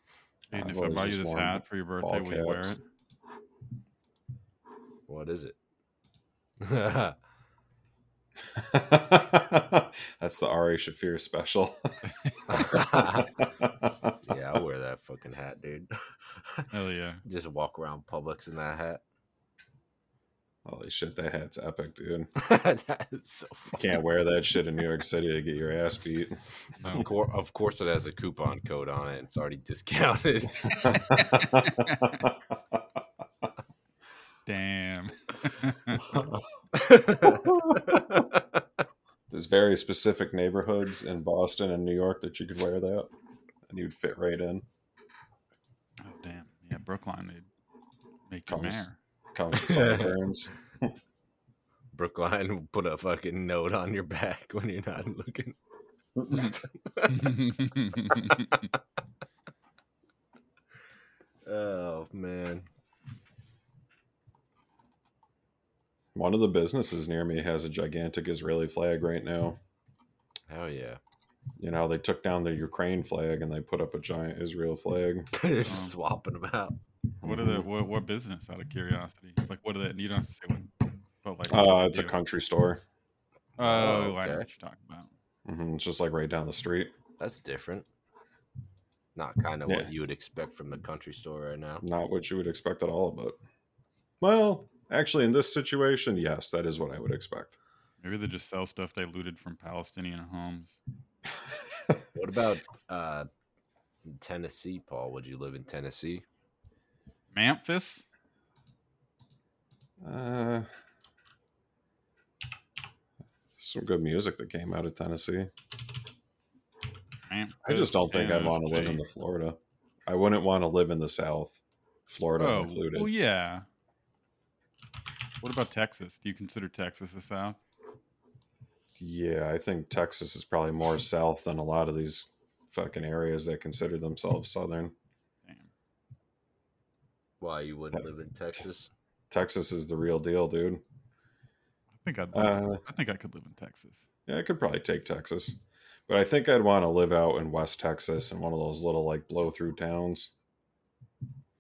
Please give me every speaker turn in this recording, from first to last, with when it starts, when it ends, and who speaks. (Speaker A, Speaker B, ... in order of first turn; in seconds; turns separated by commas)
Speaker A: 0.5-2.8, Speaker B: 0.5-2.8, Speaker C: 5.1-5.5, Speaker C: 6.6-7.2, Speaker A: 8.5-11.8, Speaker B: 12.1-12.3, Speaker C: 12.5-13.4, Speaker A: 12.5-14.6, Speaker C: 14.3-16.7, Speaker B: 16.7-17.2, Speaker C: 17.3-19.0, Speaker A: 20.7-22.3, Speaker C: 22.4-24.0, Speaker A: 23.8-26.4, Speaker B: 26.8-27.1, Speaker C: 26.9-31.3, Speaker A: 30.7-32.8, Speaker B: 31.7-32.1, Speaker B: 34.5-36.0, Speaker C: 36.8-38.4, Speaker A: 37.2-38.0, Speaker A: 39.3-43.1, Speaker A: 43.7-44.7, Speaker B: 46.0-47.5, Speaker B: 48.3-49.0, Speaker A: 48.5-50.9, Speaker C: 49.6-50.2, Speaker C: 51.9-55.6, Speaker A: 56.2-56.6, Speaker B: 56.3-58.7, Speaker C: 56.9-57.1, Speaker C: 61.5-62.7, Speaker A: 66.1-69.6, Speaker C: 70.5-71.0, Speaker A: 71.6-75.3, Speaker C: 75.3-76.8, Speaker B: 75.7-76.0, Speaker A: 77.2-77.7, Speaker B: 77.2-80.7, Speaker B: 81.2-82.2, Speaker A: 81.5-82.8, Speaker C: 83.6-84.5, Speaker B: 83.6-85.1, Speaker A: 85.5-86.9, Speaker C: 87.2-87.9, Speaker C: 89.2-91.8, Speaker A: 91.8-93.4, Speaker A: 94.2-97.6, Speaker B: 98.0-100.8, Speaker C: 102.2-103.3, Speaker C: 104.0-106.2, Speaker B: 107.3-108.0, Speaker A: 110.0-110.7, Speaker A: 113.6-115.5, Speaker B: 117.3-119.0, Speaker A: 117.6-123.1, Speaker B: 122.4-123.7, Speaker B: 125.4-127.6, Speaker A: 129.0-134.9, Speaker B: 135.4-135.7, Speaker C: 137.4-138.9, Speaker A: 139.3-140.8, Speaker B: 142.0-144.1, Speaker A: 142.3-142.8, Speaker A: 144.3-150.3